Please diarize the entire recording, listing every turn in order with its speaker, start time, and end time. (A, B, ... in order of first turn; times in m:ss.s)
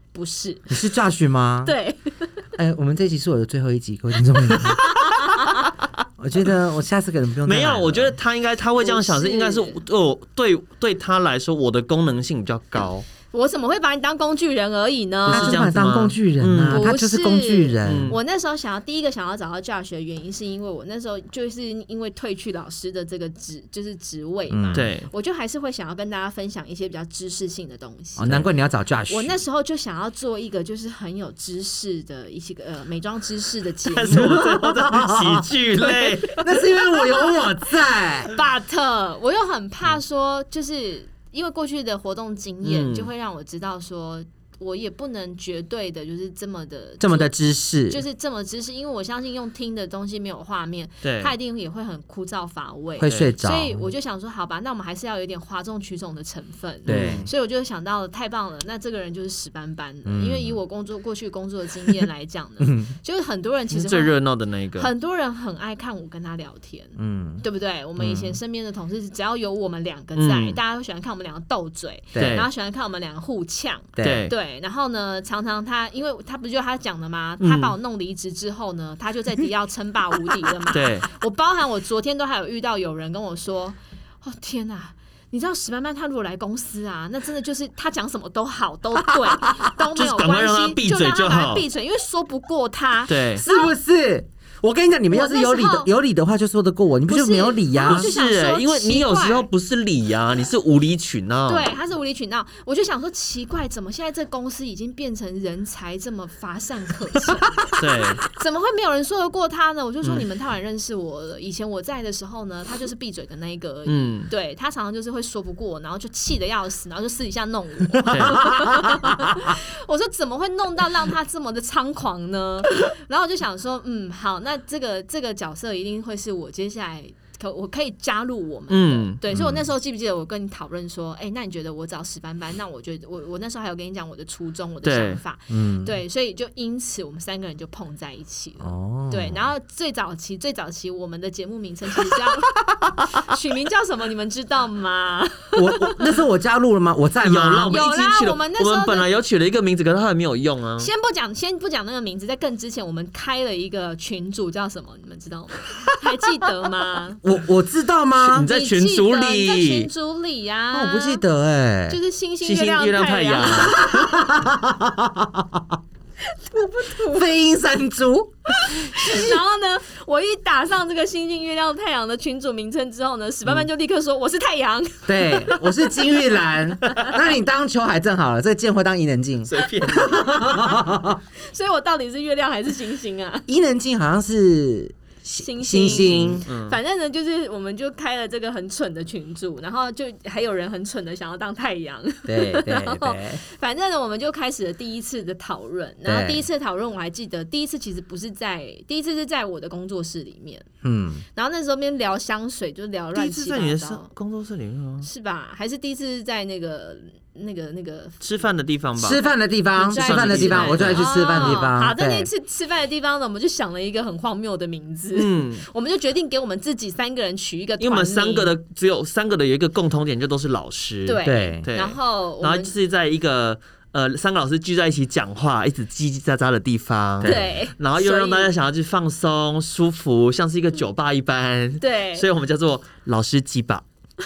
0:00.1-0:00.8 A
0:00.7-0:01.7 B
0:01.6-0:02.4 A
0:02.6-0:05.2 B
0:04.5-0:05.7 A
0:06.2-0:08.2 B
0:07.4-0:13.1 C
0:08.8-0:09.8 A
0:13.3-0:15.7 A
0:15.3-0:16.9 C
0:15.3-0:18.2 B
0:16.7-0:28.5 A
0:17.8-0:18.2 C
0:24.5-0:24.9 B
0:24.7-0:25.1 C
0:28.2-0:29.4 B
0:29.1-0:34.4 A
0:33.9-0:36.4 C
0:34.1-0:38.3 B
0:36.3-0:37.7 A
0:38.3-0:47.3 A
0:42.6-0:43.1 C
0:47.0-0:48.0 B
0:47.9-1:04.2 A
0:51.0-0:51.3 C
0:53.0-0:53.8 B
0:53.0-0:53.3 C
0:56.9-0:57.3 C
0:56.9-0:57.3 B
1:00.0-1:00.6 B
1:02.6-1:02.9 B
1:03.7-1:04.9 C
1:04.8-1:33.7 A
1:07.0-1:07.4 B
1:08.0-1:08.3 B
1:10.2-1:10.6 C
1:12.1-1:12.4 B
1:12.2-1:12.5 C
1:14.0-1:14.3 B
1:14.0-1:14.3 C
1:17.4-1:17.8 C
1:20.7-1:21.1 C
1:29.1-1:29.7 B
1:30.0-1:31.6 C
1:33.1-1:33.4 C
1:33.4-1:38.1 B
1:35.1-1:35.9 A
1:37.1-1:39.5 A
1:37.8-1:41.7 C
1:41.5-2:22.6 A
1:47.8-1:48.2 C
1:53.9-1:54.3 C
1:58.0-1:59.5 B
1:58.1-1:58.4 C
2:08.7-2:09.2 C
2:09.3-2:09.7 B
2:14.8-2:15.2 C
2:15.5-2:15.9 B
2:18.6-2:19.5 B
2:23.1-2:26.1 A
2:25.6-2:27.8 B
2:27.2-2:30.9 C
2:27.7-2:29.1 A
2:30.8-2:37.2 A
2:37.2-2:38.5 B
2:38.2-2:39.9 C
2:38.4-2:41.2 A
2:40.7-2:42.0 B
2:41.9-2:44.2 A
2:42.4-2:43.8 C
2:43.4-2:45.8 B
2:46.3-2:47.3 A
2:47.0-2:49.3 B
2:48.6-2:57.2 A
2:55.1-3:01.2 B
2:59.5-3:00.4 C
3:01.4-3:03.5 A
3:03.5-3:06.4 B
3:05.4-3:20.7 A
3:05.9-3:06.8 C
3:12.3-3:13.4 B
3:16.0-3:16.5 B
3:20.8-3:21.2 B
3:21.4-3:24.1 A
3:23.1-3:25.1 C
3:25.0-3:28.2 A
3:28.2-3:29.2 C
3:29.0-3:32.3 B
3:29.8-3:38.5 A
3:29.9-3:31.6 C
3:35.1-3:35.6 C
3:37.8-3:53.8 C
3:41.1-3:42.8 A
3:41.2-3:41.7 B
3:47.2-3:47.6 B
3:47.2-3:48.5 A
3:51.8-3:52.3 A